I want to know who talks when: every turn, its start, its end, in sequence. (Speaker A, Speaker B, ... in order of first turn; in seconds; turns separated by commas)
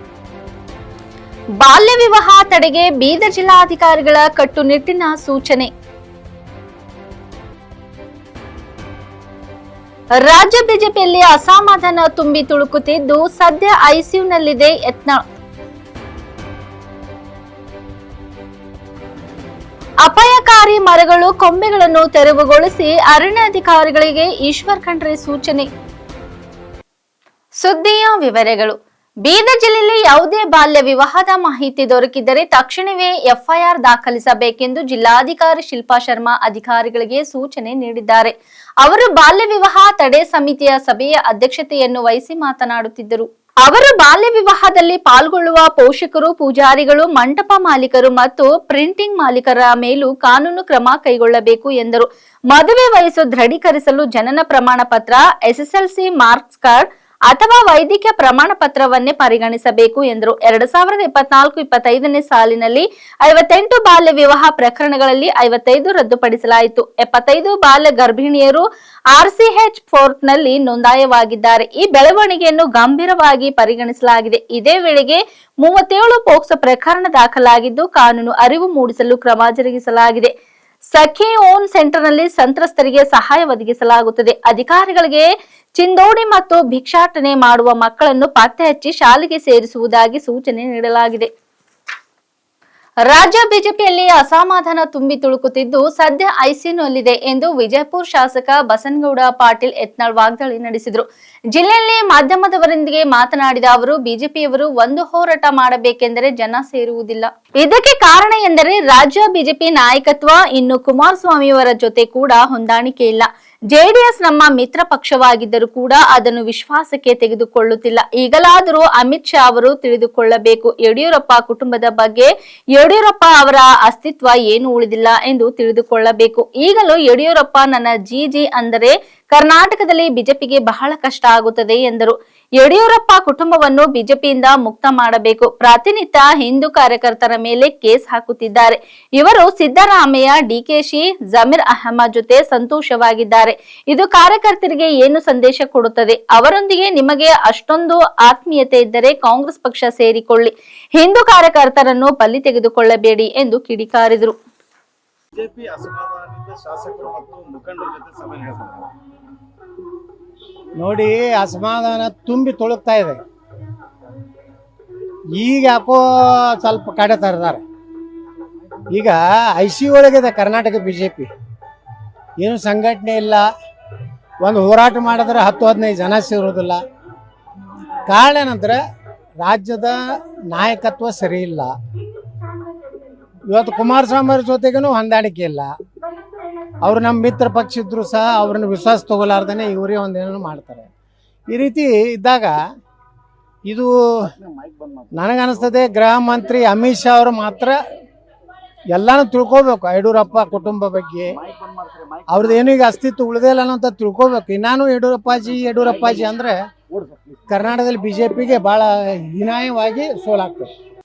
Speaker A: 1.6-5.7, Speaker A: 10.2-15.2, Speaker A: 20.0-25.7, Speaker A: 27.6-80.3, Speaker A: 80.9-85.3, Speaker A: 85.8-91.3, Speaker A: 93.1-154.3, Speaker B: 155.4-158.9, Speaker C: 160.8-163.2, Speaker C: 165.4-166.0, Speaker C: 166.6-167.6, Speaker C: 168.9-171.3, Speaker C: 172.4-173.5, Speaker C: 174.4-176.8, Speaker C: 178.1-178.8, Speaker C: 179.4-181.7, Speaker C: 183.5-185.7, Speaker C: 186.8-190.9, Speaker C: 191.5-192.6, Speaker C: 193.7-193.9, Speaker B: 194.5-195.1, Speaker C: 195.2-197.8, Speaker C: 198.9-201.3, Speaker B: 201.4-202.8, Speaker C: 202.3-206.6, Speaker B: 205.9-206.3, Speaker B: 207.0-207.3, Speaker C: 207.5-210.7